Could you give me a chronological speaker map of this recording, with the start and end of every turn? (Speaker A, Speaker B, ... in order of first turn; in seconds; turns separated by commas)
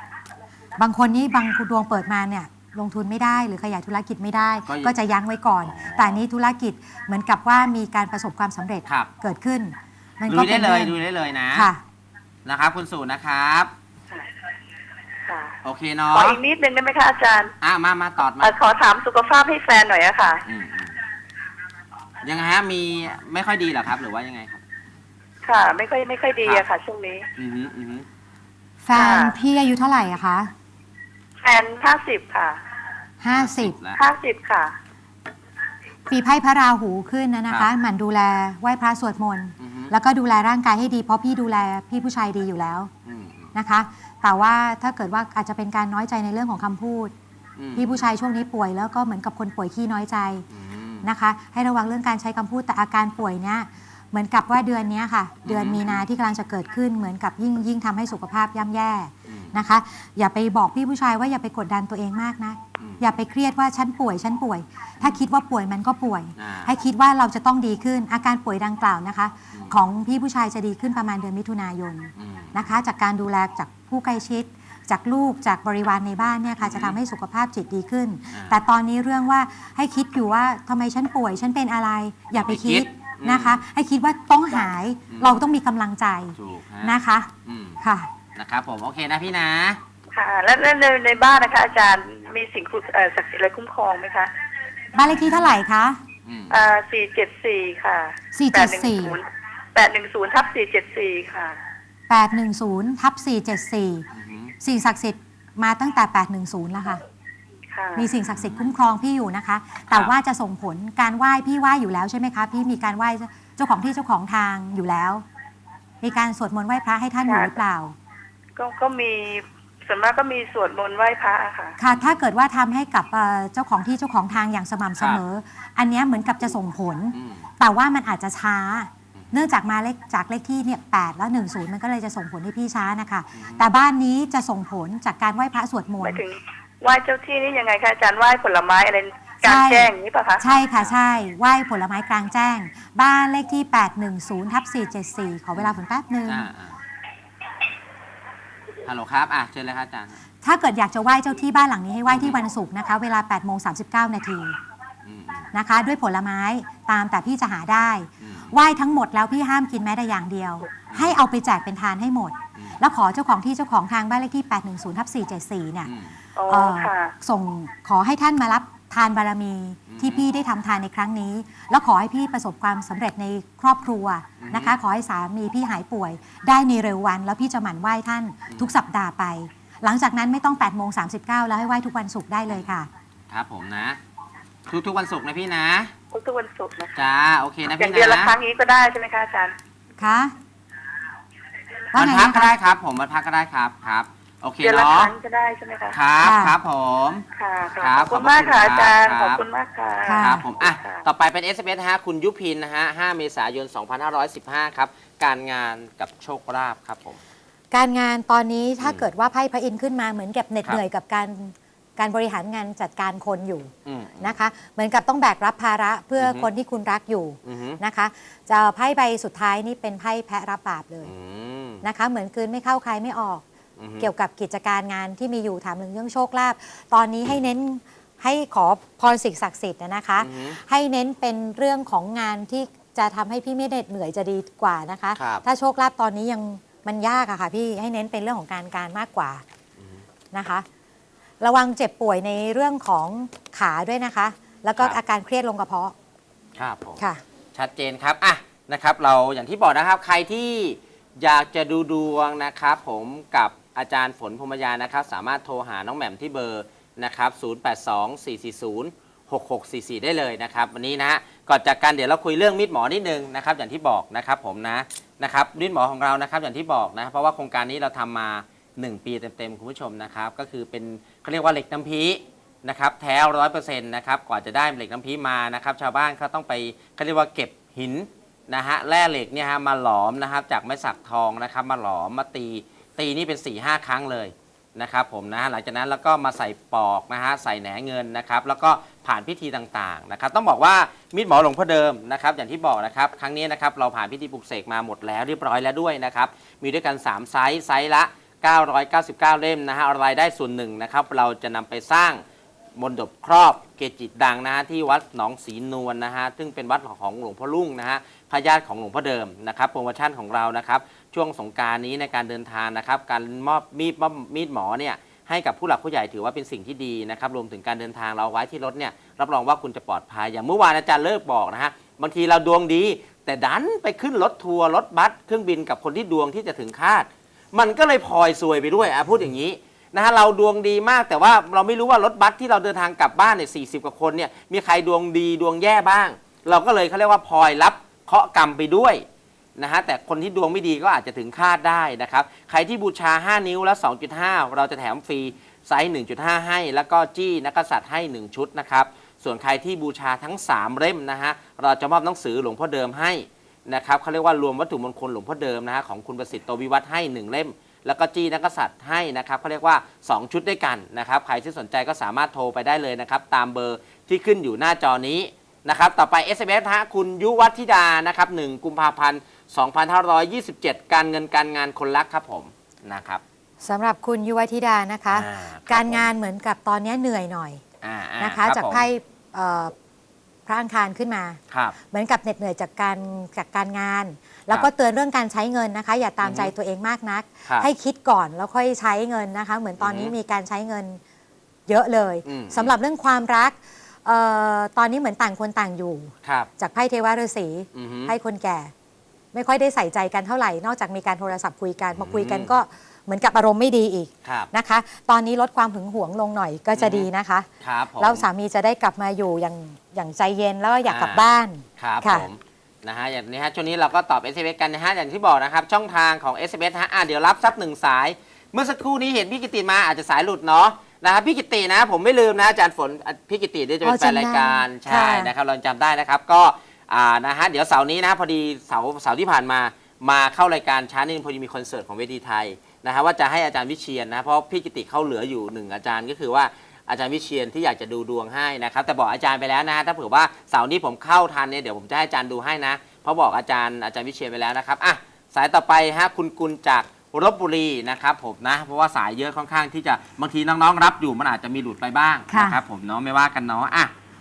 Speaker A: 0.8-10.9, Speaker B: 4.7-4.9, Speaker B: 5.6-6.2, Speaker B: 10.3-11.7, Speaker A: 11.5-11.8, Speaker B: 12.4-13.7, Speaker C: 15.2-15.5, Speaker B: 15.6-16.4, Speaker C: 16.1-17.5, Speaker B: 17.6-18.6, Speaker C: 18.4-20.4, Speaker B: 20.4-21.0, Speaker B: 22.2-24.6, Speaker C: 25.4-27.3, Speaker B: 27.4-28.1, Speaker A: 28.8-30.5, Speaker C: 28.9-29.3, Speaker C: 31.4-32.6, Speaker A: 33.2-33.8, Speaker B: 33.3-34.0, Speaker C: 33.9-34.7, Speaker A: 36.1-42.9, Speaker B: 39.6-39.9, Speaker B: 43.0-43.5, Speaker A: 43.5-47.1, Speaker B: 47.6-48.0, Speaker A: 47.8-50.5, Speaker B: 50.5-51.1, Speaker A: 51.0-88.1, Speaker B: 55.4-56.0, Speaker B: 59.3-59.6, Speaker B: 65.0-65.2, Speaker B: 66.4-66.7, Speaker B: 69.5-69.8, Speaker B: 72.1-72.8, Speaker B: 76.6-77.0, Speaker B: 78.3-78.6, Speaker B: 82.3-83.6, Speaker B: 85.1-85.4, Speaker B: 86.3-87.8, Speaker B: 88.3-89.8, Speaker C: 90.1-94.3, Speaker A: 94.9-96.0, Speaker B: 95.1-95.5, Speaker B: 96.2-96.7, Speaker C: 96.5-101.6, Speaker A: 98.3-99.2, Speaker A: 102.1-104.1, Speaker B: 104.1-104.5, Speaker A: 104.6-107.0, Speaker C: 107.7-108.1, Speaker A: 108.0-115.2, Speaker B: 108.2-108.7, Speaker A: 116.0-117.9, Speaker C: 117.2-117.5, Speaker C: 118.5-121.8, Speaker A: 121.8-136.2, Speaker B: 127.1-127.4, Speaker B: 133.3-133.7, Speaker C: 136.0-140.6, Speaker A: 139.4-146.4, Speaker B: 140.6-140.9, Speaker B: 145.6-146.8, Speaker B: 148.8-150.2, Speaker A: 150.4-154.6, Speaker B: 152.1-152.4, Speaker B: 155.1-155.5, Speaker A: 155.5-165.9, Speaker B: 158.2-158.5, Speaker B: 160.9-161.2, Speaker B: 165.8-166.1, Speaker C: 166.3-167.1, Speaker A: 166.5-182.9, Speaker B: 169.9-170.3, Speaker B: 174.4-174.7, Speaker B: 182.5-182.7, Speaker B: 183.3-184.0, Speaker B: 184.7-185.9, Speaker C: 186.1-187.0, Speaker B: 186.9-188.3, Speaker C: 187.7-189.5, Speaker A: 190.0-190.3, Speaker A: 191.9-192.5, Speaker B: 191.9-195.1, Speaker C: 194.6-196.0, Speaker B: 195.9-197.2, Speaker A: 196.2-196.6, Speaker C: 197.3-201.0, Speaker B: 197.8-199.4, Speaker A: 200.0-200.5, Speaker B: 200.2-207.2, Speaker A: 207.7-221.1, Speaker B: 208.8-209.1, Speaker B: 213.8-214.4, Speaker B: 216.2-216.5, Speaker B: 217.4-217.8, Speaker B: 221.0-221.8, Speaker A: 221.8-223.4, Speaker B: 223.8-224.1, Speaker A: 224.0-239.4, Speaker B: 230.2-230.6, Speaker B: 235.2-235.4, Speaker B: 239.8-240.0, Speaker A: 240.3-240.7, Speaker A: 241.4-245.9, Speaker B: 246.6-247.0, Speaker B: 247.5-302.2, Speaker B: 302.8-339.0, Speaker B: 339.6-373.2, Speaker A: 373.6-377.6, Speaker B: 375.1-376.1, Speaker B: 377.8-378.8, Speaker A: 378.2-379.7, Speaker A: 380.4-381.4, Speaker A: 381.9-391.0, Speaker B: 386.2-386.5, Speaker B: 389.8-390.1, Speaker A: 391.7-398.7, Speaker B: 392.2-392.7, Speaker B: 396.2-396.5, Speaker B: 397.7-398.1, Speaker A: 399.3-407.5, Speaker B: 401.9-402.5, Speaker B: 404.2-404.5, Speaker B: 406.8-407.1, Speaker B: 407.6-408.2, Speaker A: 408.0-412.3, Speaker B: 410.9-411.2, Speaker B: 411.8-453.9, Speaker A: 423.8-425.3, Speaker A: 452.3-452.6